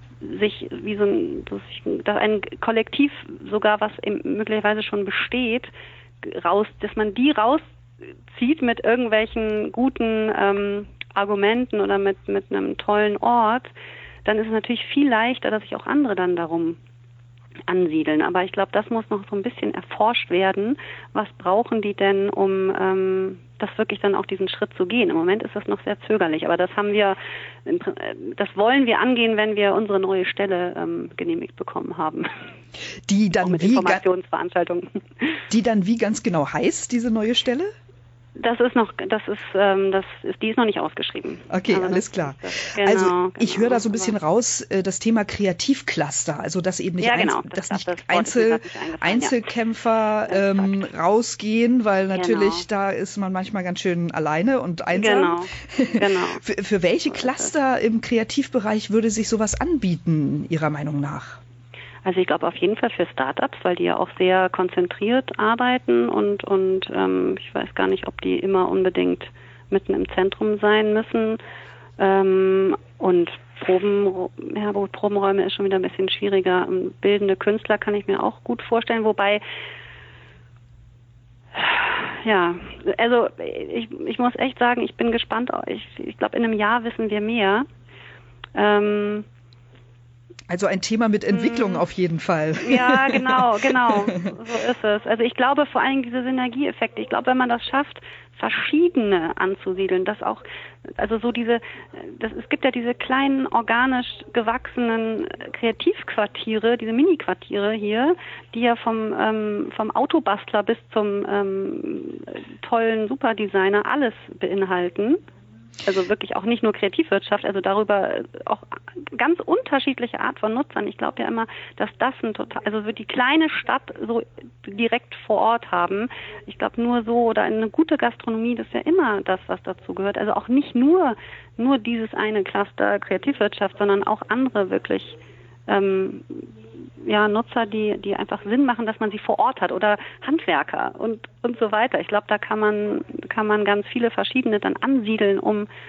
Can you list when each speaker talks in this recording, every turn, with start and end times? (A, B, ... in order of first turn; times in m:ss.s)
0:00.2-0:07.6 A
0:08.3-0:13.7 A
0:14.2-0:16.8 A
0:17.7-0:32.5 A
0:33.1-0:34.0 B
0:33.4-0:35.5 A
0:35.5-0:37.7 B
0:38.4-0:44.1 A
0:41.5-1:01.4 B
0:47.0-0:49.4 A
0:50.2-0:50.9 A
0:52.1-0:52.6 A
0:54.9-0:56.4 A
0:57.1-0:57.5 A
1:02.0-1:11.4 A
1:12.0-1:19.4 A
1:21.5-1:27.7 A
1:28.5-1:29.3 A
1:30.5-1:34.1 B
1:31.3-1:31.8 A
1:32.6-1:55.2 A
1:55.8-2:16.5 A
2:17.0-2:25.7 A